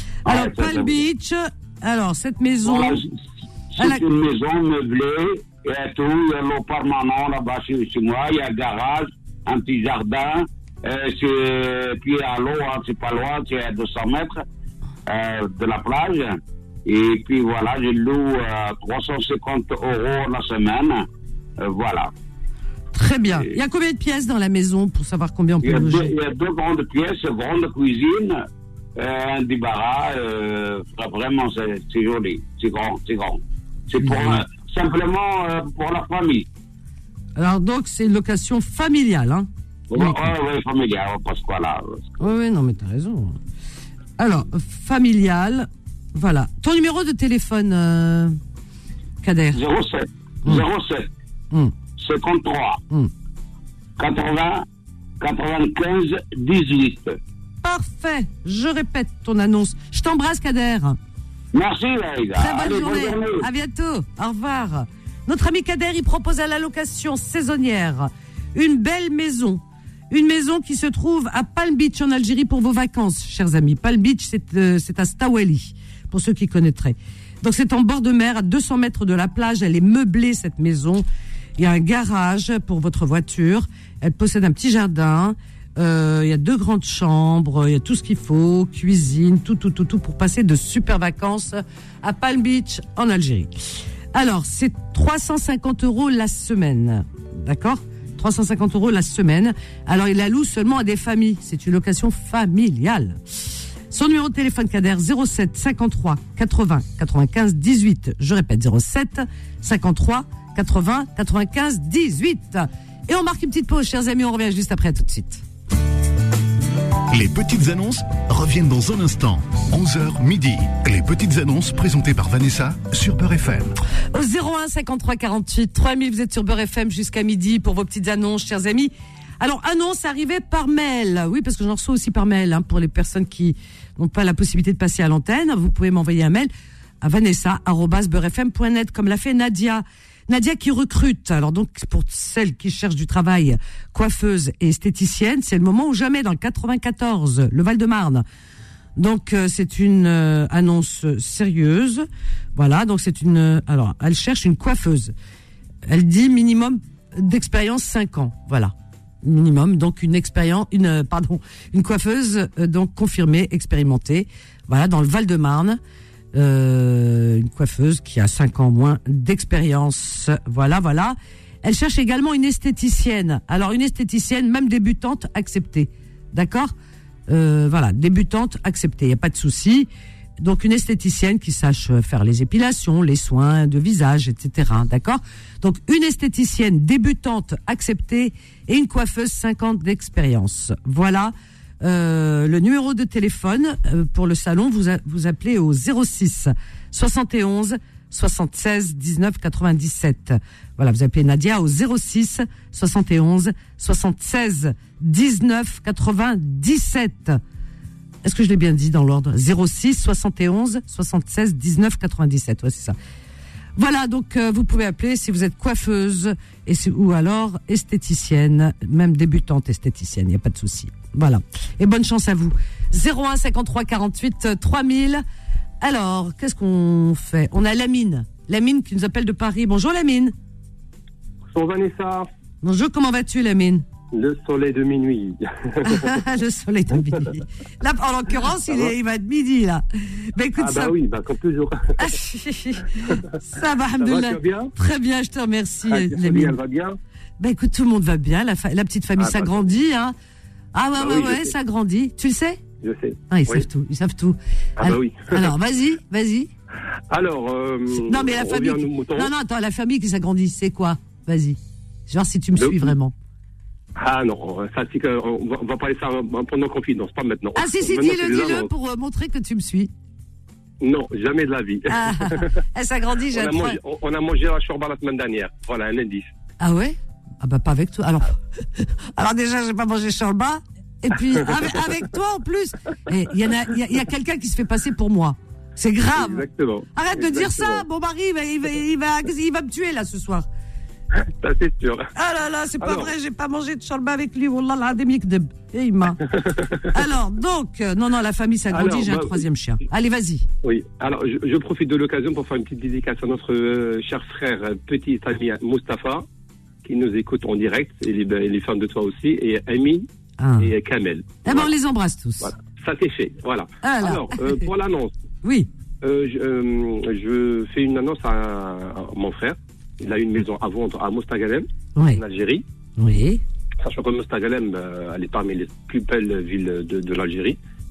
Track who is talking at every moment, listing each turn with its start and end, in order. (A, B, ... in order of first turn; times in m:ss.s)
0:00.2-0:01.0 A
0:00.2-0:03.0 B
0:02.6-0:03.2 A
0:03.7-0:14.4 A
0:03.8-0:04.0 B
0:15.1-0:21.1 A
0:21.6-0:22.1 A
0:22.9-0:26.1 B
0:25.6-0:28.4 A
0:29.0-0:36.5 A
0:34.0-0:34.4 B
0:37.4-0:40.3 B
0:39.9-0:42.2 A
0:42.2-0:43.4 B
0:44.2-0:48.4 B
0:49.2-0:49.6 B
0:49.5-0:51.1 A
0:52.0-0:52.8 A
0:54.0-0:54.6 A
0:55.2-0:57.2 A
0:57.6-1:01.0 B
1:01.5-1:03.5 A
1:02.3-1:21.0 B
1:21.6-1:33.5 B
1:34.1-1:43.2 B
1:43.9-1:55.4 B
1:57.1-2:03.8 C
2:04.1-2:16.5 B
2:17.0-2:28.2 B
2:29.0-2:35.1 B
2:35.8-2:45.8 B
2:46.3-2:56.7 B
2:57.3-2:59.9 B
3:00.4-3:27.4 B
3:28.2-3:33.0 B
3:33.8-3:45.2 B
3:45.8-3:50.3 B
3:51.5-3:52.3 D
3:52.6-3:53.8 B
3:54.1-3:56.2 D
3:55.8-4:00.9 B
4:00.6-4:02.1 D
4:02.0-4:06.6 B
4:04.0-4:04.7 D
4:05.9-4:07.0 D
4:07.4-4:10.1 B
4:09.2-4:09.6 D
4:10.7-4:12.6 B
4:11.0-4:11.5 D
4:12.8-4:13.6 D
4:13.3-4:16.5 B
4:14.8-4:15.5 D
4:17.1-4:19.3 D
4:17.9-4:23.1 B
4:22.6-4:22.9 D
4:24.0-4:28.7 D
4:27.6-4:29.9 B
4:30.8-4:32.5 D
4:31.9-4:33.8 B
4:33.3-4:36.3 D
4:36.6-4:50.5 B
4:46.1-4:47.8 D
4:51.1-4:52.1 D
4:52.1-4:56.3 B
4:52.8-4:53.1 D
4:56.3-4:56.9 D
4:56.9-5:00.4 B
4:58.7-4:59.4 D
5:00.6-5:06.2 D
5:06.8-5:10.1 D
5:10.4-5:10.7 B
5:10.6-5:11.7 D
5:11.4-5:12.5 B
5:12.4-5:15.1 D
5:13.8-5:14.7 B
5:15.4-5:15.7 B
5:16.0-5:22.6 D
5:22.0-5:22.2 B
5:23.0-5:23.4 B
5:23.8-5:27.6 D